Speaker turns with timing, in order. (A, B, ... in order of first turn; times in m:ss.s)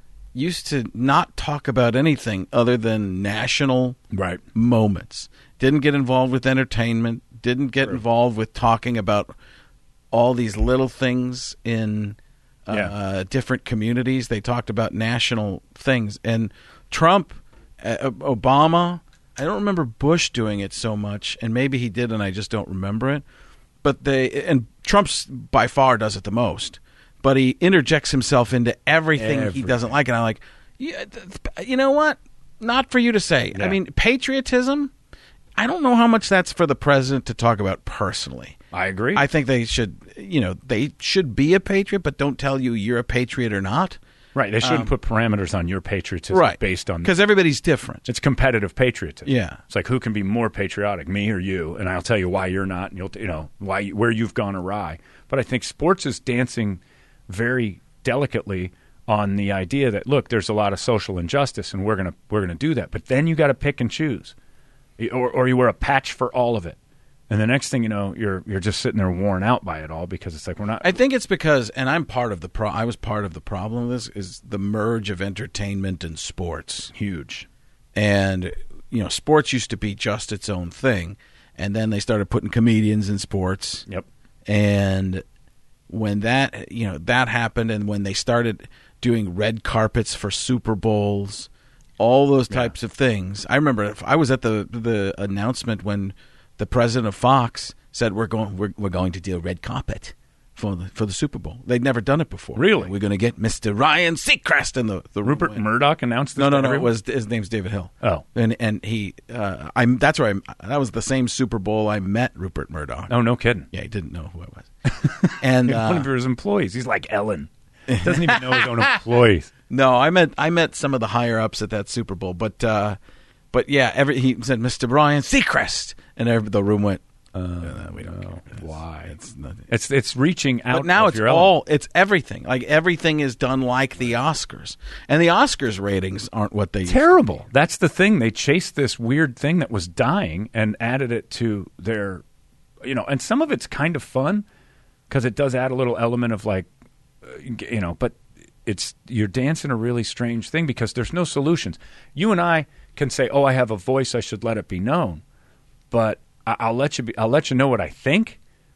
0:00.3-0:04.0 A
0:04.1-0:04.4 B
0:04.5-0:09.3 A
0:10.1-0:23.2 A
0:23.8-0:34.9 A
0:29.2-0:29.9 B
0:35.6-0:38.6 A
0:38.7-0:39.2 B
0:39.1-0:44.0 A
0:44.3-0:47.1 B
0:44.6-0:44.9 A
0:46.3-0:48.0 A
0:48.0-1:04.3 B
0:49.2-0:49.6 A
1:05.0-1:06.8 B
1:07.3-1:10.9 B
1:10.8-1:16.9 A
1:16.9-1:17.5 B
1:17.9-1:23.8 A
1:24.4-1:25.2 A
1:25.9-1:45.6 A
1:42.5-1:42.9 B
1:45.2-1:46.9 B
1:46.4-1:53.1 A
1:53.1-1:53.7 B
1:53.7-1:54.7 A
1:54.9-1:59.5 B
1:55.2-1:56.1 A
1:57.9-1:58.7 A
1:59.7-2:03.0 A
2:03.5-2:07.0 A
2:07.3-2:09.1 B
2:07.6-2:09.6 A
2:09.7-2:11.5 B
2:10.7-2:17.3 A
2:16.9-2:22.2 B
2:22.8-2:24.4 B
2:25.1-2:26.7 B
2:27.2-2:35.2 B
2:35.9-2:38.4 B